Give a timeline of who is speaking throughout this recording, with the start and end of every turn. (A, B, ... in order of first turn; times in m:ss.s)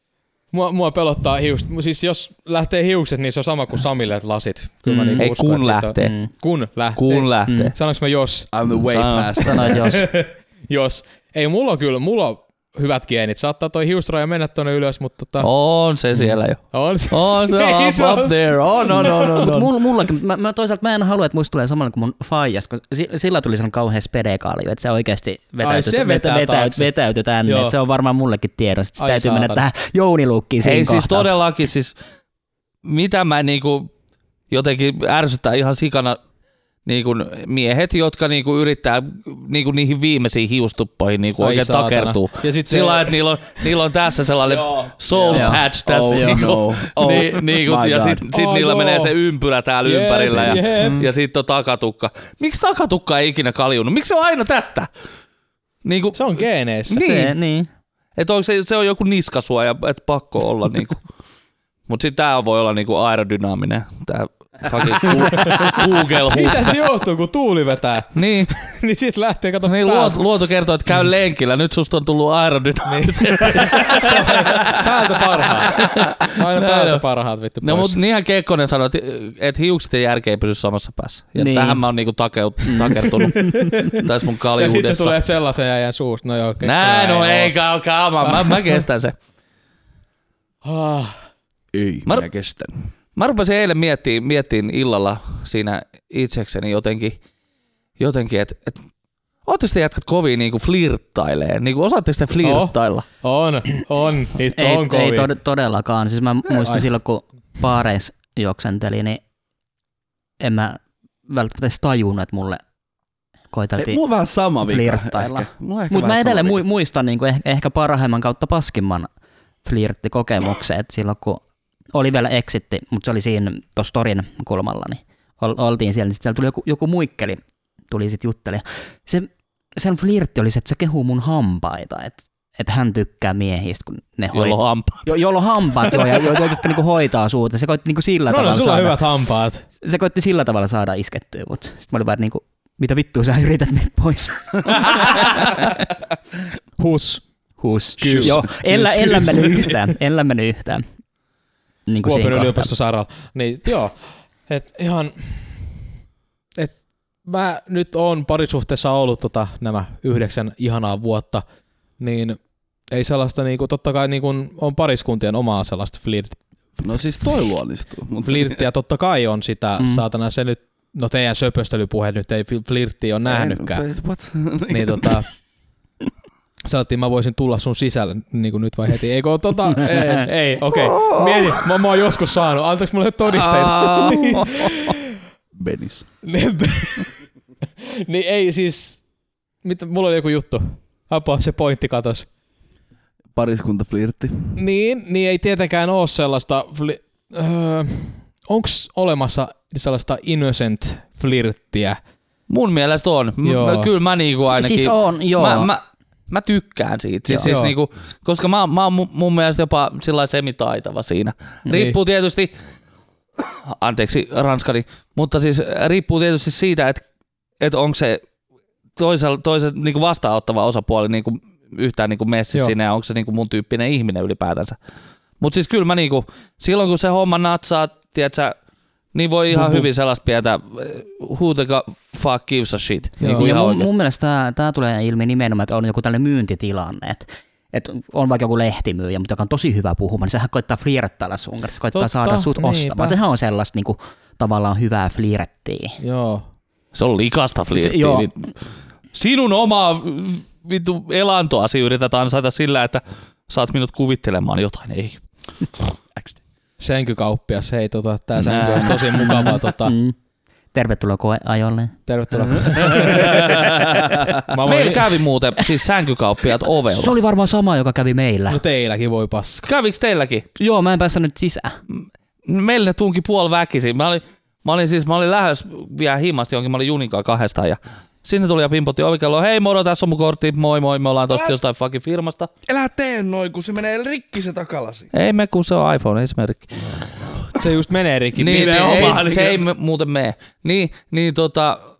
0:00.5-0:08.5 A
0:04.9-0:05.2 B
0:05.2-0:06.2 C
0:06.0-0:06.3 B
0:07.0-0:07.7 C
0:07.5-0:07.7 B
0:08.5-0:09.8 D
0:08.9-0:09.7 C
0:09.4-0:10.1 B
0:09.7-0:15.5 A
0:15.4-0:19.7 C
0:16.7-0:19.6 A
0:18.9-0:31.3 B
0:25.6-0:26.9 A
0:27.4-0:27.8 A
0:29.0-0:29.6 A
0:30.6-0:31.9 C
0:32.8-0:33.9 C
0:34.5-0:36.2 C
0:36.8-0:54.9 C
0:41.4-0:43.2 A
0:44.6-0:48.2 D
0:45.3-0:46.4 B
0:48.3-0:49.1 A
0:49.8-0:51.0 A
0:50.8-0:51.0 B
0:55.8-0:57.3 C
0:56.1-0:57.1 A
0:56.9-0:57.7 B
0:58.2-1:01.0 C
1:01.9-1:06.8 C
1:05.0-1:10.2 A
1:08.2-1:08.5 C
1:09.6-1:17.0 C
1:12.9-1:18.0 A
1:17.6-1:25.2 C
1:21.4-1:21.8 B
1:22.6-1:23.9 B
1:23.4-1:27.6 A
1:26.6-1:29.2 C
1:28.2-1:28.8 A
1:30.6-1:31.2 A
1:31.7-1:32.9 D
1:33.2-1:37.2 C
1:38.0-1:38.8 C
1:39.4-1:43.0 C
1:42.4-1:45.3 A
1:44.5-1:49.2 B
1:46.5-1:46.9 A
1:50.4-1:52.6 B
1:53.5-1:54.0 B
1:53.8-1:56.6 D
1:54.6-1:59.1 B
1:59.6-2:01.4 B
2:01.9-2:19.0 B
2:14.3-2:15.1 C
2:15.8-2:16.4 C
2:18.3-2:19.6 A
2:19.8-2:25.7 B
2:26.8-2:27.2 A
2:27.6-2:30.8 B
2:28.0-2:29.9 A
2:28.0-2:28.4 D
2:31.9-2:32.7 B
2:32.0-2:35.7 A
2:36.6-2:41.4 A
2:42.0-2:42.4 A
2:42.9-2:46.4 A
2:46.8-2:48.6 D
2:48.2-2:53.8 A
2:53.3-2:55.2 D
2:54.7-2:55.2 A
2:56.6-3:05.0 A
3:00.8-3:01.6 C
3:03.4-3:04.8 C
3:05.6-3:06.0 D
3:06.2-3:07.2 A
3:07.8-3:09.0 A
3:09.6-3:12.3 A
3:13.4-3:14.6 D
3:14.6-3:22.0 A
3:22.5-3:32.5 C
3:23.4-3:23.9 A
3:24.5-3:25.7 B
3:27.3-3:27.5 B
3:27.4-3:27.7 A
3:31.7-3:32.0 A
3:33.4-3:37.0 C
3:37.6-3:38.2 C
3:39.0-3:44.8 C
3:45.4-3:48.5 C
3:49.1-3:53.9 C
3:49.5-3:49.9 A
3:53.2-3:53.5 A
3:53.4-4:06.0 B
4:01.9-4:03.2 A
4:06.0-4:06.4 A
4:06.9-4:08.5 C
4:07.7-4:08.3 B
4:09.1-4:15.2 C
4:16.8-4:19.9 A
4:18.4-4:19.0 C
4:19.0-4:20.2 B
4:20.7-4:22.0 B
4:22.1-4:23.7 A
4:22.8-4:24.2 D
4:24.5-4:25.2 A
4:24.6-4:27.2 C
4:26.9-4:28.6 B
4:28.5-4:29.6 A
4:29.6-4:30.5 C
4:30.6-4:31.8 B
4:31.9-4:42.5 C
4:42.6-4:45.1 D
4:45.1-4:47.1 C
4:47.5-4:49.3 A
4:48.4-4:51.8 C
4:48.4-4:49.6 D